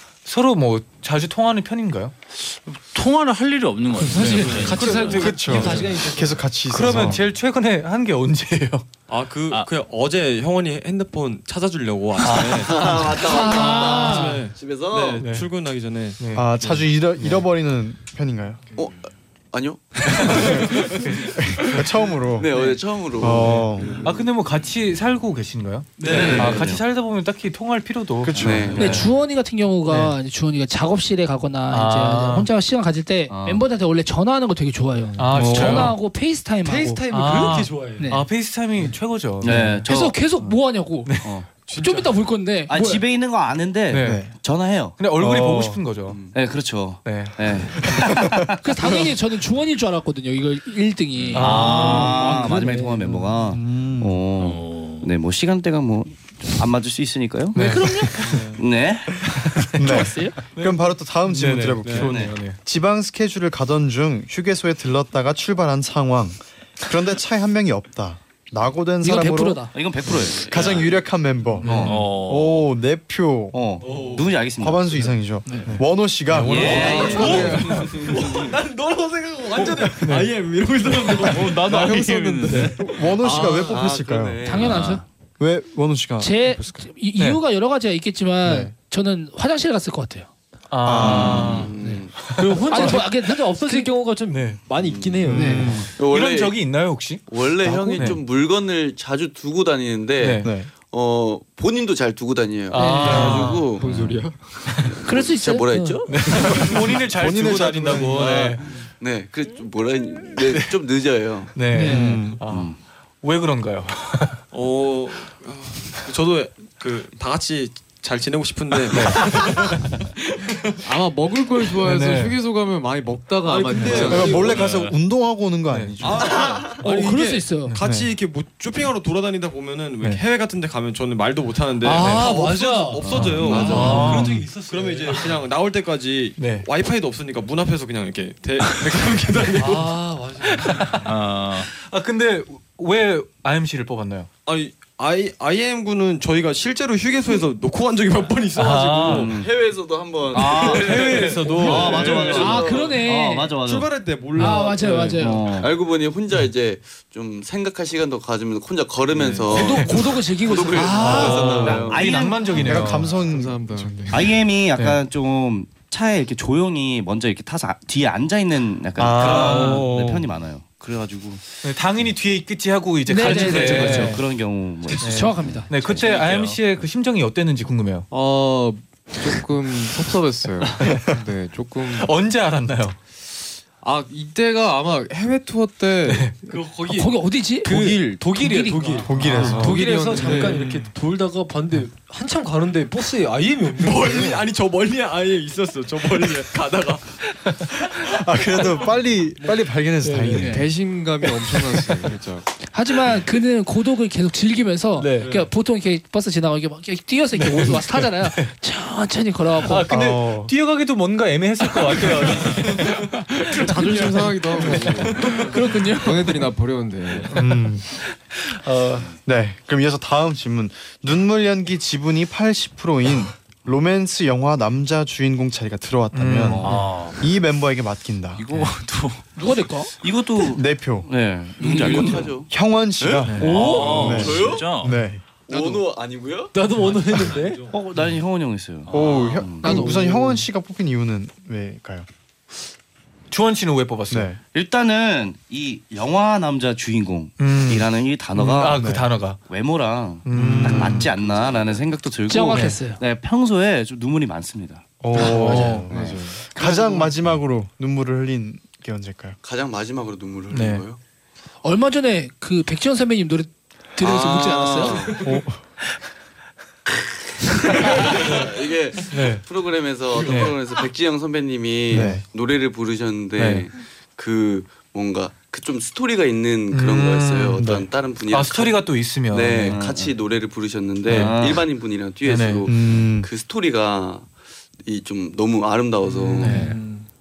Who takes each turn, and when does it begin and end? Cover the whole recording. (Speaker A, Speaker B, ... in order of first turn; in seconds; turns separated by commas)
Speaker A: 0.2-2.1, Speaker B: 2.4-5.3, Speaker C: 4.0-6.4, Speaker A: 4.1-5.8, Speaker D: 5.2-7.2, Speaker A: 6.7-8.8, Speaker E: 9.1-16.7, Speaker A: 12.2-13.1, Speaker F: 12.6-15.2, Speaker G: 13.2-14.5, Speaker A: 15.2-15.5, Speaker A: 16.2-16.6, Speaker D: 16.3-18.6, Speaker F: 18.8-20.5, Speaker A: 20.0-21.9, Speaker D: 20.3-22.5, Speaker F: 22.4-23.6, Speaker D: 23.2-24.0, Speaker A: 23.5-29.0, Speaker E: 26.0-26.4, Speaker F: 26.0-26.7, Speaker H: 26.0-26.8, Speaker D: 28.2-29.1, Speaker F: 28.4-29.1, Speaker H: 28.8-29.1, Speaker G: 28.8-37.0, Speaker A: 29.9-30.1, Speaker A: 31.7-32.5, Speaker H: 33.3-33.6, Speaker A: 35.2-36.0, Speaker D: 35.4-35.9, Speaker C: 36.6-38.2, Speaker A: 37.0-39.9, Speaker G: 38.0-38.2, Speaker H: 39.4-40.7, Speaker G: 39.9-43.0, Speaker A: 41.0-41.4, Speaker H: 41.2-41.5, Speaker H: 42.7-45.0, Speaker A: 43.9-44.3, Speaker D: 44.0-44.3, Speaker A: 45.0-46.2, Speaker D: 45.1-45.8, Speaker F: 46.1-46.4, Speaker H: 46.3-48.6, Speaker A: 47.0-48.3, Speaker G: 48.6-53.0, Speaker H: 51.3-57.6, Speaker B: 51.3-52.2, Speaker A: 51.3-52.4, Speaker D: 53.5-54.2, Speaker B: 54.4-55.1, Speaker A: 57.5-58.4, Speaker G: 57.5-58.4, Speaker D: 57.7-58.3, Speaker H: 58.4-59.2, Speaker A: 59.2-62.6, Speaker D: 59.8-69.8, Speaker G: 59.8-60.4, Speaker H: 61.9-62.4, Speaker G: 69.0-69.7, Speaker H: 69.7-70.9, Speaker F: 70.4-70.8, Speaker D: 70.4-73.6, Speaker H: 71.6-72.0, Speaker A: 71.6-72.1, Speaker B: 71.7-72.6, Speaker H: 73.5-75.1, Speaker E: 73.8-74.3, Speaker D: 74.6-77.6, Speaker A: 76.3-77.9, Speaker H: 76.4-77.7, Speaker E: 76.6-84.8, Speaker I: 76.9-78.0, Speaker A: 80.0-80.4, Speaker A: 81.1-82.9, Speaker I: 81.2-82.7, Speaker D: 82.6-84.5, Speaker G: 84.4-85.0, Speaker B: 84.6-85.0, Speaker D: 85.4-86.7, Speaker G: 86.2-90.3, Speaker A: 87.2-87.4, Speaker D: 88.4-88.7, Speaker A: 90.7-92.9, Speaker D: 90.8-91.7, Speaker F: 91.0-92.2, Speaker H: 91.1-91.6, Speaker G: 91.2-92.0, Speaker C: 92.3-95.9, Speaker G: 92.7-93.9, Speaker A: 94.3-94.6, Speaker F: 94.8-95.2, Speaker D: 95.2-95.9, Speaker G: 95.3-95.7, Speaker F: 96.0-96.6, Speaker A: 96.0-98.2, Speaker F: 97.3-103.9, Speaker D: 97.6-98.2, Speaker A: 100.2-100.6, Speaker D: 100.4-100.7, Speaker A: 102.7-103.8, Speaker G: 102.7-103.4, Speaker I: 103.8-104.5, Speaker H: 103.8-104.2, Speaker F: 104.8-106.6, Speaker G: 105.0-106.0, Speaker A: 106.0-108.7, Speaker D: 106.4-108.5, Speaker E: 108.2-108.5, Speaker F: 109.0-111.5, Speaker A: 111.5-114.4, Speaker G: 111.7-112.3, Speaker D: 111.8-112.4, Speaker H: 112.5-112.8, Speaker E: 114.5-119.9, Speaker A: 118.9-120.0, Speaker I: 120.8-124.6, Speaker A: 121.8-122.4, Speaker E: 123.4-124.7, Speaker D: 124.0-126.5, Speaker B: 124.4-124.9, Speaker A: 125.7-126.2, Speaker E: 126.0-140.7, Speaker G: 126.8-127.8, Speaker D: 127.8-128.1, Speaker A: 131.8-135.4, Speaker H: 133.1-133.6, Speaker I: 133.2-134.2, Speaker A: 136.4-136.7, Speaker A: 139.6-144.3, Speaker B: 141.0-141.7, Speaker E: 144.4-149.3, Speaker A: 148.5-149.3, Speaker H: 149.1-149.6, Speaker F: 149.2-153.0, Speaker H: 150.3-154.0, Speaker E: 150.3-152.6, Speaker A: 150.7-152.4, Speaker G: 152.2-153.6, Speaker E: 153.6-155.3, Speaker G: 154.3-155.4, Speaker I: 154.8-155.0, Speaker H: 155.1-155.7, Speaker F: 155.5-162.3, Speaker E: 159.1-159.6, Speaker G: 159.5-161.7, Speaker A: 159.6-160.0, Speaker A: 160.9-163.2, Speaker H: 161.5-162.5, Speaker D: 162.4-164.3, Speaker I: 162.4-164.4, Speaker H: 164.1-171.4, Speaker A: 169.0-170.1, Speaker D: 169.0-170.3, Speaker A: 171.6-174.2, Speaker G: 173.1-174.2, Speaker H: 173.2-176.6, Speaker G: 174.9-175.8, Speaker A: 175.0-178.1, Speaker I: 178.1-182.1, Speaker A: 180.8-181.1, Speaker A: 181.8-183.0, Speaker I: 183.8-187.2, Speaker A: 186.0-186.3, Speaker C: 186.5-194.4, Speaker G: 186.8-189.5, Speaker D: 189.0-189.8, Speaker I: 189.2-190.8, Speaker A: 189.2-190.9, Speaker E: 193.8-197.2, Speaker A: 197.4-197.7, Speaker D: 198.0-200.6, Speaker A: 200.0-200.4, Speaker G: 200.3-200.7, Speaker I: 200.4-202.4, Speaker A: 201.7-202.0, Speaker G: 202.6-209.9, Speaker A: 205.0-205.4, Speaker A: 207.4-208.5, Speaker A: 209.6-214.9, Speaker D: 209.9-210.5, Speaker G: 212.7-216.5, Speaker I: 213.5-217.6, Speaker D: 217.3-217.8, Speaker A: 217.3-219.1, Speaker D: 219.2-228.7, Speaker A: 226.1-227.0, Speaker H: 226.4-226.8, Speaker B: 226.6-227.2, Speaker B: 228.3-229.2, Speaker G: 229.4-229.9, Speaker H: 230.0-232.4, Speaker D: 230.4-231.1, Speaker F: 231.6-234.8, Speaker D: 232.4-235.2, Speaker A: 233.2-234.2, Speaker B: 233.4-234.9, Speaker C: 233.5-233.9, Speaker H: 233.6-234.3, Speaker F: 235.5-236.5, Speaker C: 236.5-237.6, Speaker E: 237.0-237.8, Speaker H: 237.7-239.8, Speaker D: 238.9-242.1, Speaker G: 239.6-240.2, Speaker C: 239.7-240.1, Speaker A: 243.3-244.3, Speaker D: 244.1-244.4, Speaker H: 244.5-256.2, Speaker A: 247.4-249.4, Speaker D: 248.7-249.1, Speaker A: 250.2-251.1, Speaker D: 250.3-251.1, Speaker G: 252.3-253.0, Speaker A: 252.5-252.8, Speaker D: 255.0-259.4, Speaker G: 255.1-255.6, Speaker A: 255.2-255.9, Speaker I: 255.9-256.4, Speaker F: 259.4-261.0, Speaker A: 260.5-260.8, Speaker G: 261.6-265.2, Speaker F: 264.0-265.2, Speaker D: 265.2-265.6, Speaker F: 267.8-284.3, Speaker A: 269.1-269.4, Speaker A: 270.2-270.6, Speaker D: 271.9-272.2, Speaker A: 271.9-272.2, Speaker A: 273.4-273.7, Speaker A: 276.7-277.7, Speaker D: 277.6-277.9, Speaker A: 278.3-279.8, Speaker H: 279.6-280.1, Speaker A: 281.1-281.5, Speaker H: 281.1-281.6, Speaker A: 282.2-282.7, Speaker D: 282.7-283.3, Speaker F: 284.8-286.6, Speaker A: 286.4-286.8, Speaker C: 286.4-287.0